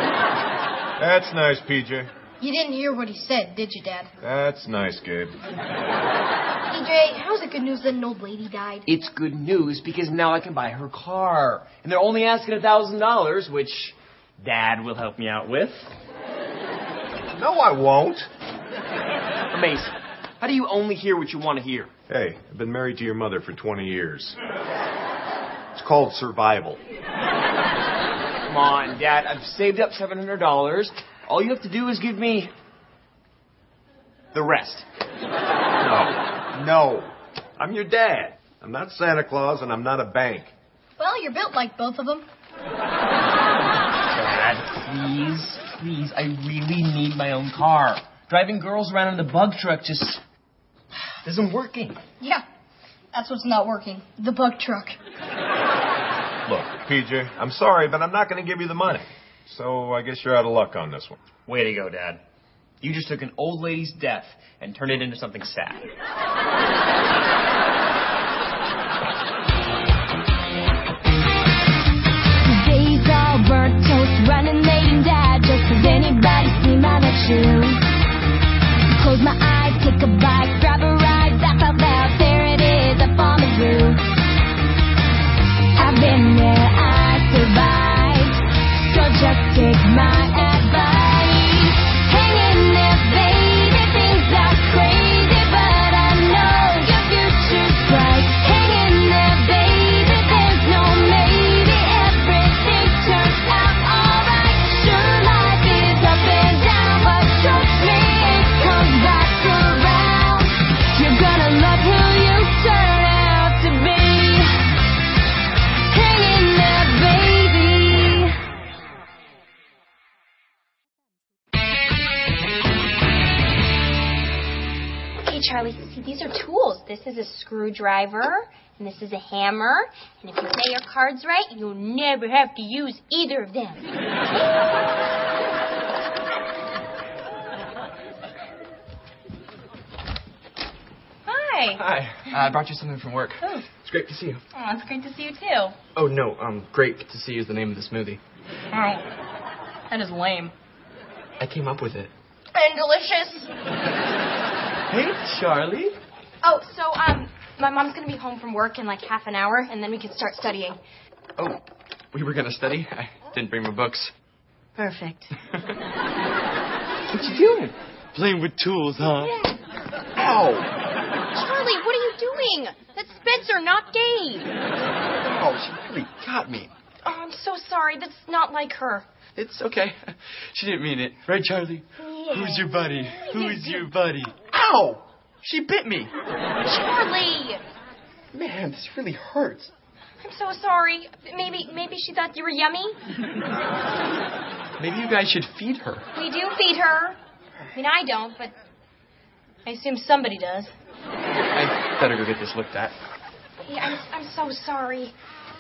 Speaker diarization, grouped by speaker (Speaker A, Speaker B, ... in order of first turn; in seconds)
Speaker A: 1.0-2.1, 4.2-5.4, 17.3-18.3, 22.1-24.4, 25.8-26.8, 35.8-40.5, 56.5-61.2
Speaker B: 2.4-4.1, 6.7-8.9, 41.0-42.3, 52.2-52.5, 53.1-55.0
Speaker C: 8.9-15.9, 19.5-21.9, 28.5-32.5, 34.3-34.9, 44.1-50.2, 51.2-52.0, 61.5-62.2, 62.8-65.9, 154.9-155.9, 167.1-168.2, 170.2-170.7, 175.4-176.7, 184.5-185.0, 188.3-189.7
Speaker D: 72.4-77.8, 78.9-84.1, 85.8-114.8, 115.9-118.3
Speaker E: 125.2-133.9, 141.3-141.9, 144.5-145.8, 148.7-149.1, 149.9-150.5, 152.6-153.4, 156.4-160.8, 164.8-165.1, 169.2-169.6, 171.3-174.5, 177.0-179.1, 182.1-182.7, 183.2-183.9, 186.7-187.6, 190.2-193.0, 196.1-197.2, 197.7-198.6, 199.7-200.7, 203.7-205.1
Speaker F: 141.8-144.4, 145.9-148.2, 151.4-152.1, 162.1-164.1, 168.2-169.3, 179.4-184.3, 185.4-186.1, 194.8-196.1, 201.5-202.9